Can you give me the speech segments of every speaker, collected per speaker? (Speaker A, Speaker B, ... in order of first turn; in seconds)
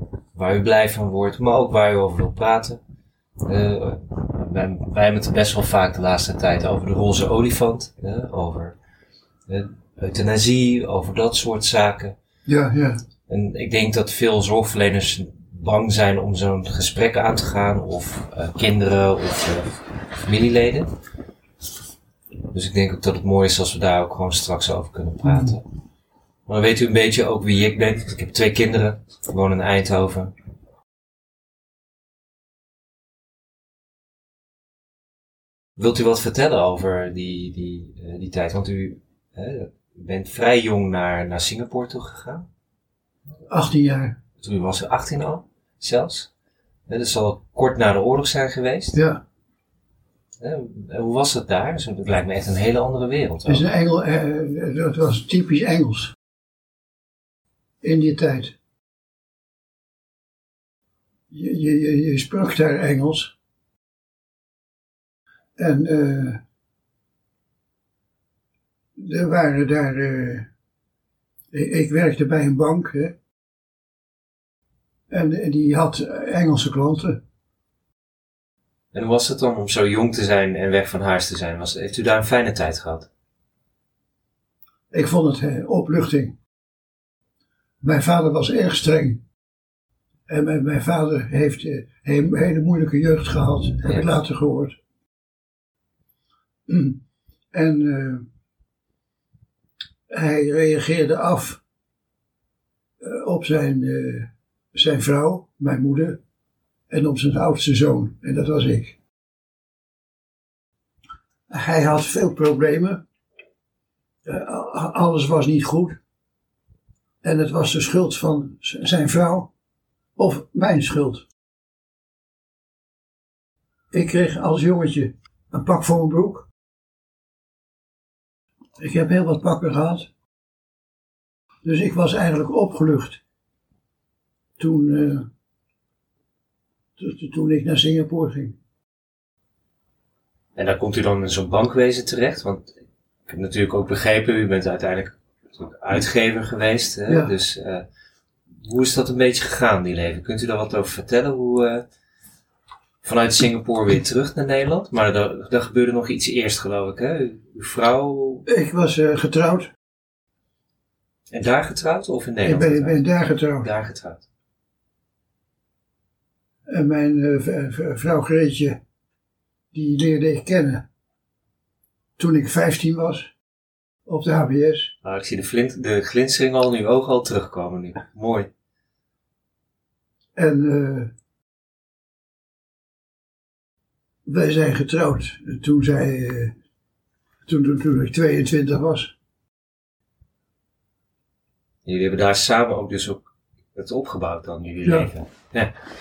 Speaker A: 0.3-2.8, 3.4-8.8, 9.5-12.2, 13.3-20.9, 22.5-25.6, 26.5-30.3, 35.8-42.5, 44.4-46.3, 46.9-49.0, 50.4-53.6, 78.9-83.1, 140.6-142.7, 143.3-147.8, 148.6-151.8, 153.0-158.5, 161.3-163.0, 163.6-164.2, 175.0-178.5, 191.8-195.7
Speaker B: 12.5-13.0, 25.2-25.6, 43.5-44.2, 48.9-49.2, 53.5-56.1, 57.8-58.5, 61.3-63.3, 65.6-66.4, 69.0-70.5, 71.5-73.2, 75.1-77.2, 84.9-86.4, 87.8-89.2, 90.3-94.8, 96.7-97.0, 97.5-98.3, 100.1-101.6, 103.0-106.2, 106.9-109.0, 111.5-113.0, 114.2-116.0, 117.2-119.5, 120.2-121.3, 123.9-126.5, 128.8-130.1, 131.6-133.2, 134.6-135.3, 137.0-138.6, 147.1-147.3, 158.5-159.7, 162.4-163.7, 166.7-168.8, 169.7-170.9, 172.2-173.3, 174.1-174.9, 180.3-181.1, 184.3-186.6, 187.5-189.1, 194.8-195.1